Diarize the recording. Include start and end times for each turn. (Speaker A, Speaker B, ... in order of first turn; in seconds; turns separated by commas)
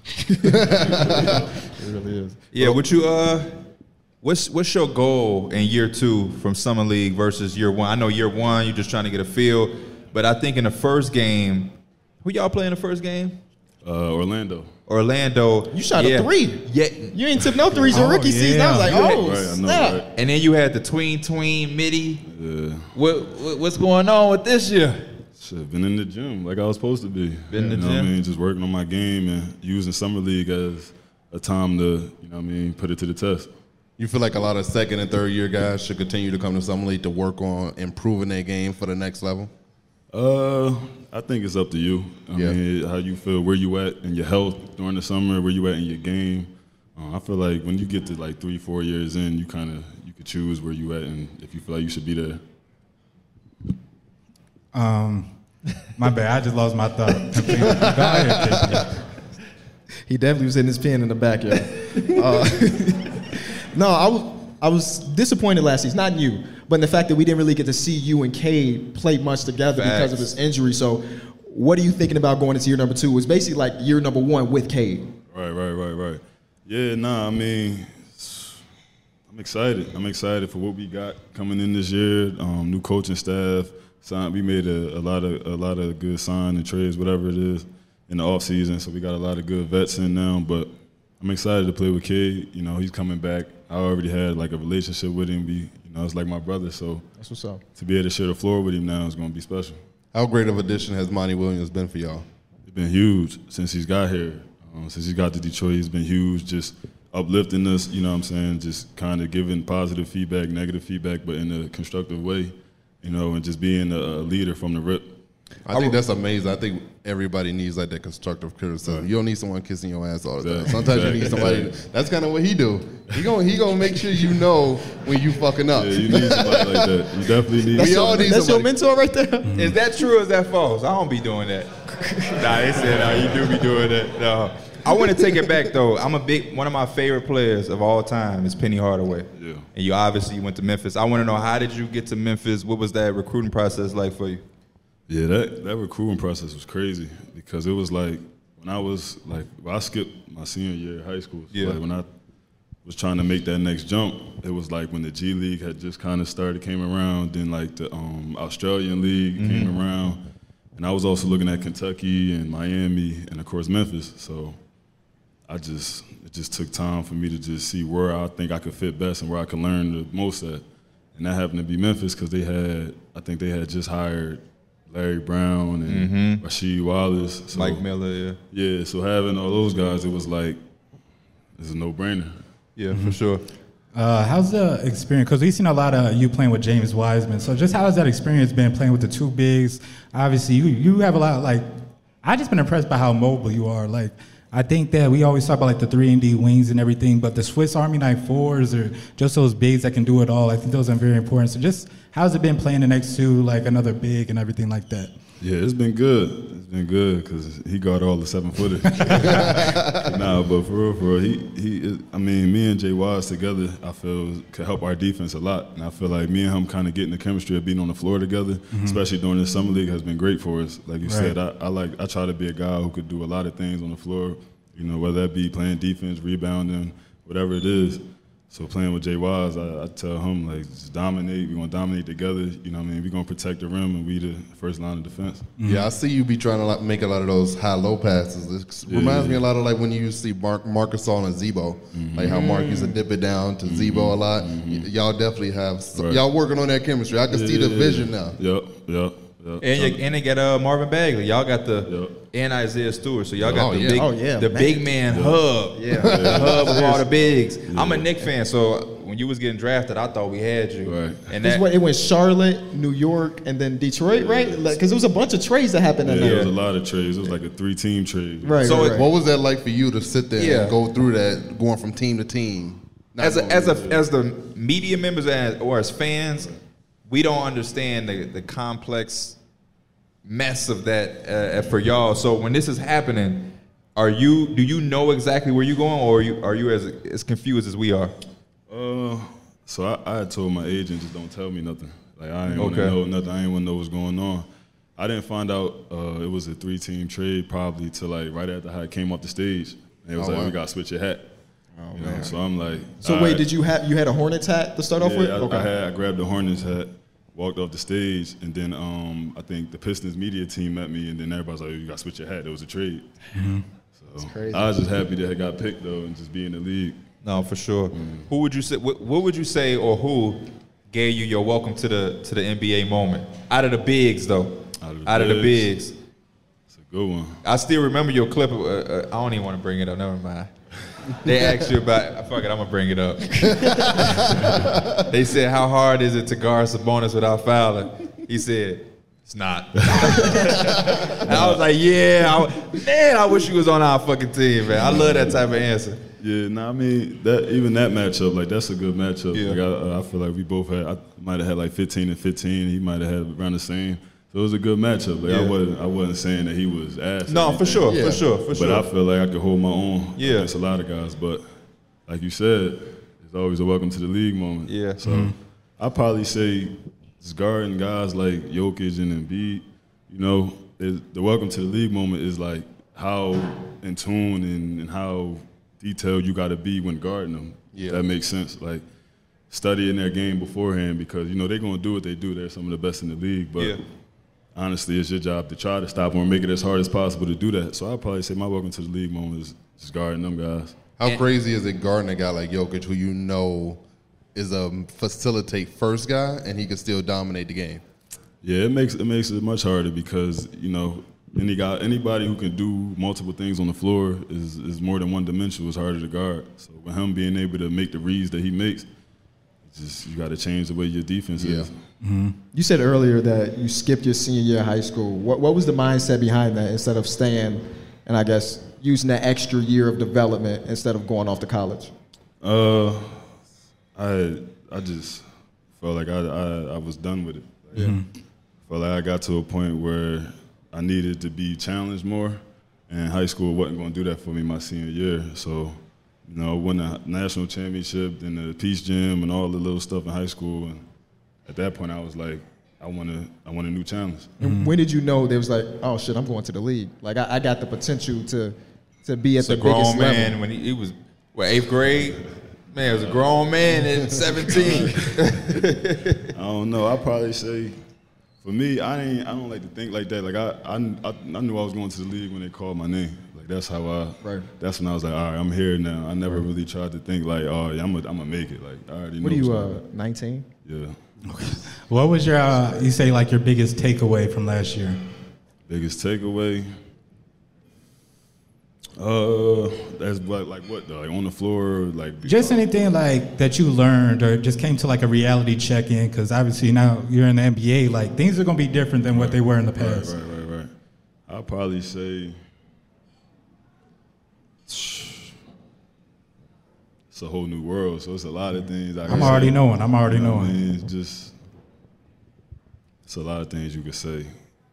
Speaker A: 0.3-2.8, Speaker B: 0.5-1.4, Speaker C: 2.5-3.5, Speaker C: 4.2-13.4, Speaker D: 13.8-14.7, Speaker C: 14.9-17.4, Speaker A: 15.7-20.0, Speaker E: 17.9-19.1, Speaker C: 18.9-19.2, Speaker D: 19.0-20.1, Speaker C: 20.1-22.2, Speaker D: 22.2-22.9, Speaker C: 22.9-25.1, Speaker D: 25.4-33.5, Speaker C: 27.5-28.1, Speaker B: 34.0-39.5, Speaker D: 40.1-52.4, Speaker E: 54.7-55.3, Speaker E: 56.0-58.9, Speaker B: 58.0-58.8, Speaker A: 60.1-75.1, Speaker C: 69.8-70.3, Speaker D: 75.3-78.6, Speaker D: 79.3-97.0, Speaker A: 97.2-97.6, Speaker D: 97.8-99.8, Speaker B: 100.1-102.2, Speaker D: 102.7-115.1, Speaker B: 115.7-126.9, Speaker C: 115.7-116.0, Speaker D: 120.4-121.8, Speaker D: 125.7-128.3, Speaker B: 127.7-128.7, Speaker A: 127.8-129.5, Speaker E: 129.4-129.8, Speaker C: 129.6-131.7, Speaker A: 131.9-132.7, Speaker C: 132.3-144.4, Speaker D: 139.3-139.7, Speaker D: 145.1-152.1, Speaker C: 151.5-151.8, Speaker D: 152.8-160.2, Speaker C: 159.4-159.8, Speaker D: 160.8-164.6, Speaker D: 165.5-170.6, Speaker D: 171.2-177.8, Speaker C: 175.9-176.4, Speaker C: 177.5-178.4, Speaker D: 178.5-180.6, Speaker D: 181.6-182.4, Speaker C: 182.8-183.4, Speaker E: 182.9-183.2, Speaker E: 183.9-191.7, Speaker E: 192.2-205.1, Speaker D: 205.4-235.5, Speaker E: 208.9-209.6, Speaker B: 209.6-210.0, Speaker E: 218.7-219.0, Speaker E: 221.1-221.4, Speaker E: 235.6-235.9, Speaker B: 235.6-248.4, Speaker D: 238.9-239.4, Speaker D: 241.9-242.7, Speaker A: 242.3-242.9, Speaker D: 243.6-244.9, Speaker D: 245.9-246.2, Speaker D: 247.3-250.0, Speaker C: 249.6-261.6, Speaker D: 251.9-252.2, Speaker B: 253.4-254.1, Speaker A: 253.9-254.9, Speaker D: 255.1-255.5, Speaker A: 255.7-256.7, Speaker B: 256.0-256.9, Speaker D: 256.0-258.1, Speaker D: 260.8-261.2, Speaker A: 261.4-266.5, Speaker D: 264.1-264.7, Speaker D: 266.0-268.8, Speaker C: 266.2-266.5, Speaker A: 268.4-269.1, Speaker C: 268.6-269.0, Speaker B: 268.8-273.9, Speaker C: 270.4-270.8, Speaker C: 273.2-276.5, Speaker C: 277.1-279.4, Speaker C: 280.2-288.1, Speaker D: 288.7-294.5, Speaker C: 292.6-293.0, Speaker D: 295.0-301.3, Speaker B: 300.2-300.5, Speaker A: 301.8-302.3, Speaker D: 301.9-303.5, Speaker A: 303.0-305.7, Speaker D: 305.0-313.1, Speaker E: 313.4-313.6, Speaker D: 313.9-317.0, Speaker A: 314.2-314.7, Speaker C: 317.2-325.9, Speaker D: 317.9-318.3, Speaker D: 324.8-325.7, Speaker D: 326.7-327.4, Speaker C: 327.4-330.5, Speaker C: 331.1-334.3, Speaker C: 335.1-346.0, Speaker D: 339.8-340.7, Speaker D: 341.2-341.6, Speaker D: 344.7-345.4, Speaker D: 346.2-361.5, Speaker C: 349.3-349.6, Speaker C: 355.3-355.5, Speaker C: 357.3-358.9, Speaker B: 357.9-358.2, Speaker C: 360.2-360.5, Speaker D: 362.1-378.8, Speaker C: 364.7-365.0, Speaker E: 365.0-365.3, Speaker B: 377.7-378.1, Speaker D: 379.5-383.8, Speaker D: 384.6-390.8, Speaker B: 391.0-393.8, Speaker B: 394.4-397.8, Speaker D: 398.4-408.9, Speaker D: 409.7-411.7, Speaker B: 411.4-411.7, Speaker E: 412.0-412.4, Speaker A: 412.5-421.9, Speaker D: 422.4-423.3, Speaker D: 423.9-425.3, Speaker D: 425.8-428.0, Speaker E: 427.8-428.0, Speaker D: 428.7-440.8, Speaker D: 441.5-444.4, Speaker E: 444.4-444.7, Speaker A: 444.4-450.4, Speaker C: 449.4-452.2, Speaker C: 452.7-456.3, Speaker D: 452.9-453.2, Speaker D: 454.4-455.4, Speaker D: 456.3-457.8, Speaker D: 458.4-469.8, Speaker A: 464.2-464.5, Speaker A: 469.2-470.5, Speaker D: 470.6-471.0, Speaker E: 471.3-475.0, Speaker D: 472.5-472.9, Speaker D: 475.7-476.7, Speaker D: 479.0-482.6, Speaker E: 482.2-490.1, Speaker D: 489.1-490.7, Speaker D: 491.3-492.4, Speaker D: 494.7-495.3, Speaker D: 497.1-501.3, Speaker E: 499.1-500.6, Speaker D: 503.1-504.3